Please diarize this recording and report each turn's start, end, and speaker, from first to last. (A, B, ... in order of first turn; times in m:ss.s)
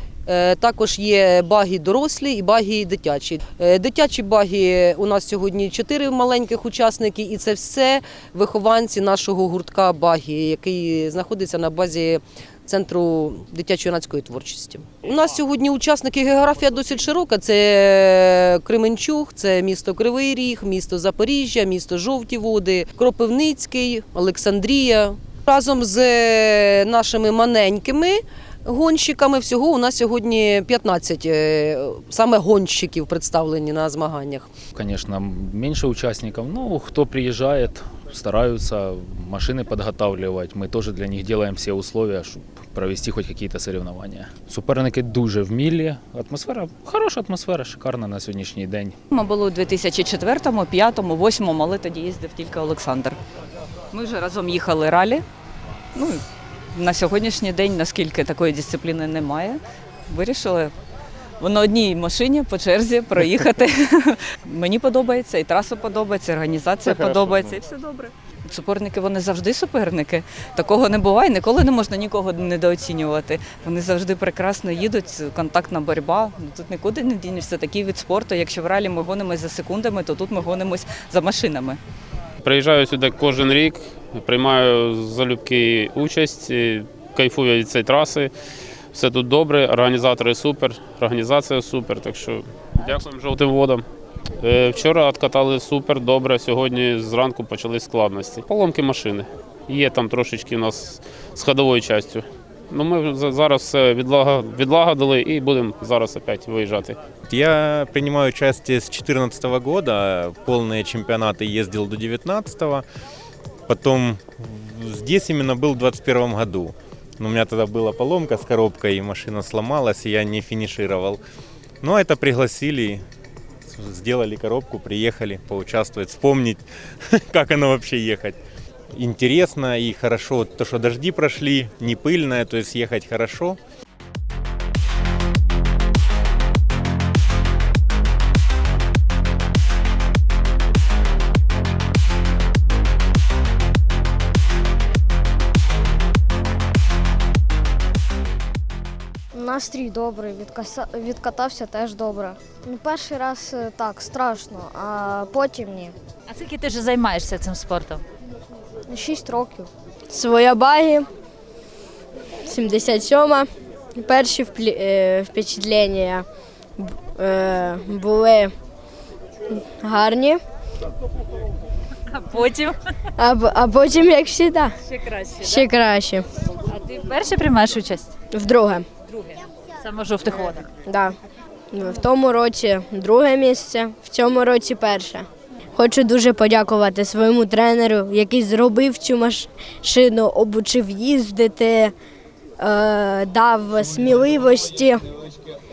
0:00.3-0:18.0 A
0:18.7-0:34.5 A
0:34.7-0:49.0 B
0:49.1-0:53.2 C
0:53.9-0:55.2 C
0:56.0-1:00.7 C
1:01.4-1:21.8 C
1:22.4-1:28.3 D
1:28.9-1:33.9 D
1:34.4-1:47.0 D
1:47.3-1:52.8 E
1:53.7-2:01.2 E
2:01.8-2:03.0 E
2:03.7-2:06.7 E
2:07.3-2:08.4 E
2:08.9-2:13.6 E
2:29.3-2:36.0 F
2:36.3-2:38.0 G
2:38.9-2:39.7 F
2:40.1-2:41.1 H
2:42.5-2:46.2 H
2:46.8-2:48.5 H
2:49.6-2:50.4 H
2:52.1-2:52.8 G
2:53.2-2:54.7 H
2:55.2-2:55.5 G
2:55.4-2:56.2 H
2:56.7-2:58.1 G
2:58.3-2:58.9 H
2:59.3-3:00.7 G
3:00.9-3:01.1 H
3:01.7-3:11.9 H
3:12.6-3:15.0 H